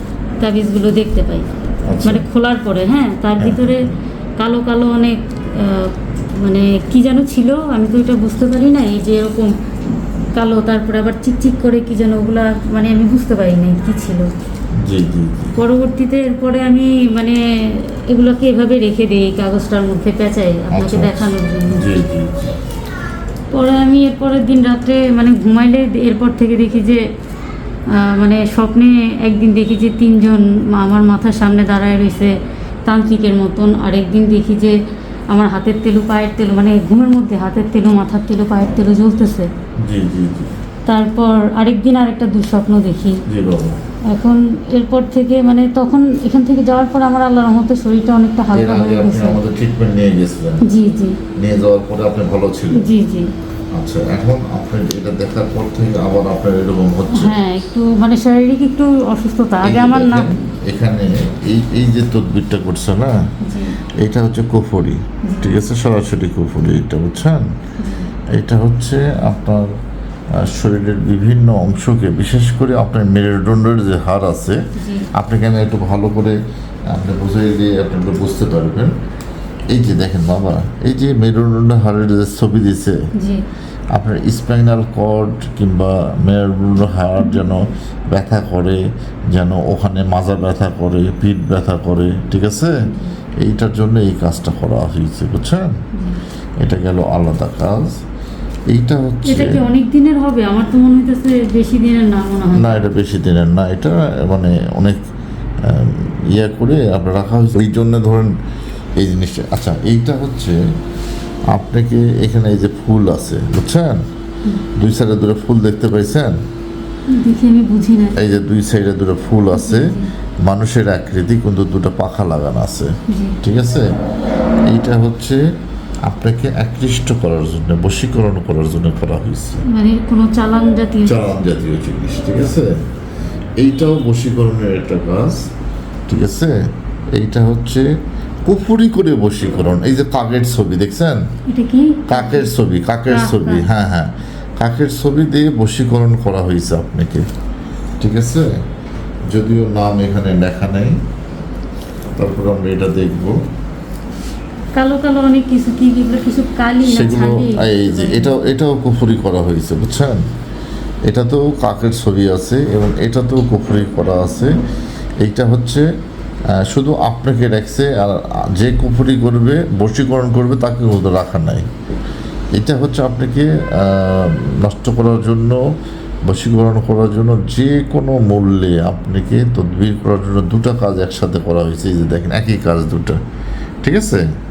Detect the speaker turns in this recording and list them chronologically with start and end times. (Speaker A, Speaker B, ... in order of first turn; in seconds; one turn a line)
Speaker A: 0.4-1.5
Speaker B: 1.9-2.3
Speaker A: 2.0-9.6
Speaker B: 3.4-3.9
Speaker A: 10.3-14.3
Speaker B: 14.8-15.6
Speaker A: 15.6-21.8
Speaker B: 20.7-22.6
Speaker A: 23.5-27.0
Speaker A: 27.9-32.3
Speaker A: 32.9-34.8
Speaker A: 35.3-39.5
Speaker B: 39.8-40.5
Speaker A: 40.9-43.2
Speaker B: 43.3-43.8
Speaker A: 44.1-49.4
Speaker B: 48.5-50.6
Speaker A: 50.6-51.2
Speaker B: 51.4-52.9
Speaker A: 52.7-53.3
Speaker B: 53.7-57.4
Speaker A: 57.1-60.3
Speaker B: 59.6-63.2
Speaker A: 63.4-63.8
Speaker B: 64.0-67.5
Speaker A: 65.2-65.5
Speaker A: 67.8-68.1
Speaker B: 68.3-69.7
Speaker B: 70.3-74.6
Speaker A: 74.8-75.1
Speaker B: 75.1-76.4
Speaker B: 76.9-78.9
Speaker B: 79.7-83.0
Speaker A: 83.1-83.4
Speaker B: 83.9-92.8
Speaker A: 92.9-93.1
Speaker B: 93.4-95.7
Speaker A: 95.9-96.2
Speaker B: 96.6-98.0
Speaker B: 98.7-99.6
Speaker A: 99.2-102.8
Speaker B: 102.5-105.0
Speaker B: 105.6-108.3
Speaker B: 109.0-110.6
Speaker B: 111.5-114.0
Speaker B: 114.8-116.3
Speaker A: 117.1-118.2
Speaker B: 118.2-119.9
Speaker A: 119.5-120.1
Speaker B: 120.4-122.9
Speaker A: 123.1-123.4
Speaker B: 123.4-123.9
Speaker B: 124.7-125.4
Speaker B: 126.0-129.6
Speaker A: 129.7-131.3
Speaker B: 131.0-132.7
Speaker B: 133.6-135.5
Speaker B: 136.1-136.6
Speaker B: 137.1-137.9
Speaker B: 138.4-141.2
Speaker A: 141.5-142.5
Speaker B: 142.1-147.2
Speaker A: 143.1-143.7
Speaker B: 148.0-148.5
Speaker B: 149.3-150.9
Speaker B: 152.1-153.4
Speaker A: 154.8-158.4
Speaker B: 156.8-160.2
Speaker B: 161.1-164.5
Speaker B: 165.2-165.8
Speaker B: 166.5-171.7
Speaker B: 172.5-175.6
Speaker B: 176.3-183.2
Speaker B: 183.8-184.2